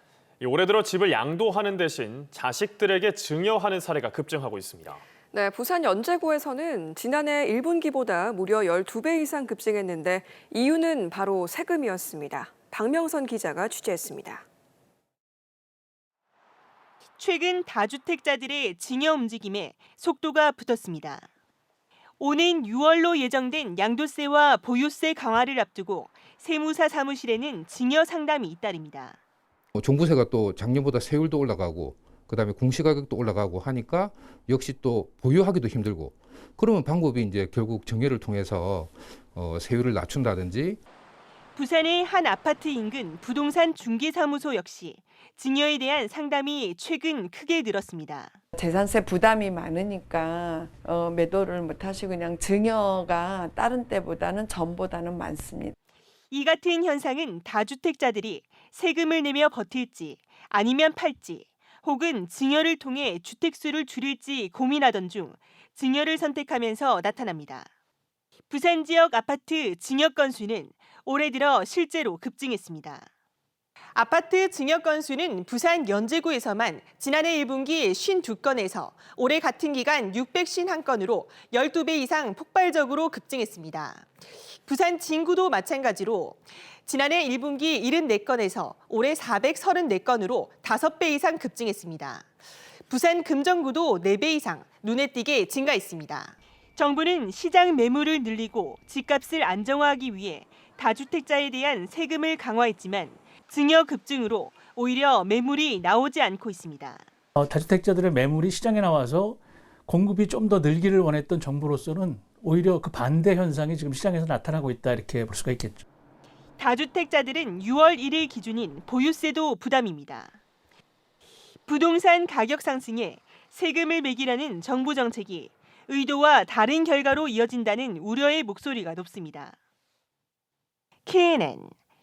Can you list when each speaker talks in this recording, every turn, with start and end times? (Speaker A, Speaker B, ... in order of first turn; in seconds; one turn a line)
Speaker A: 0.4-5.0
Speaker B: 5.3-14.4
Speaker C: 17.2-21.3
Speaker C: 22.2-29.2
Speaker D: 29.7-40.8
Speaker C: 41.5-48.4
Speaker E: 48.5-55.7
Speaker C: 56.3-67.7
Speaker C: 68.5-73.1
Speaker C: 73.9-92.2
Speaker C: 92.9-107.0
Speaker F: 107.4-115.8
Speaker C: 116.6-120.4
Speaker C: 121.6-129.6
Speaker C: 131.1-131.7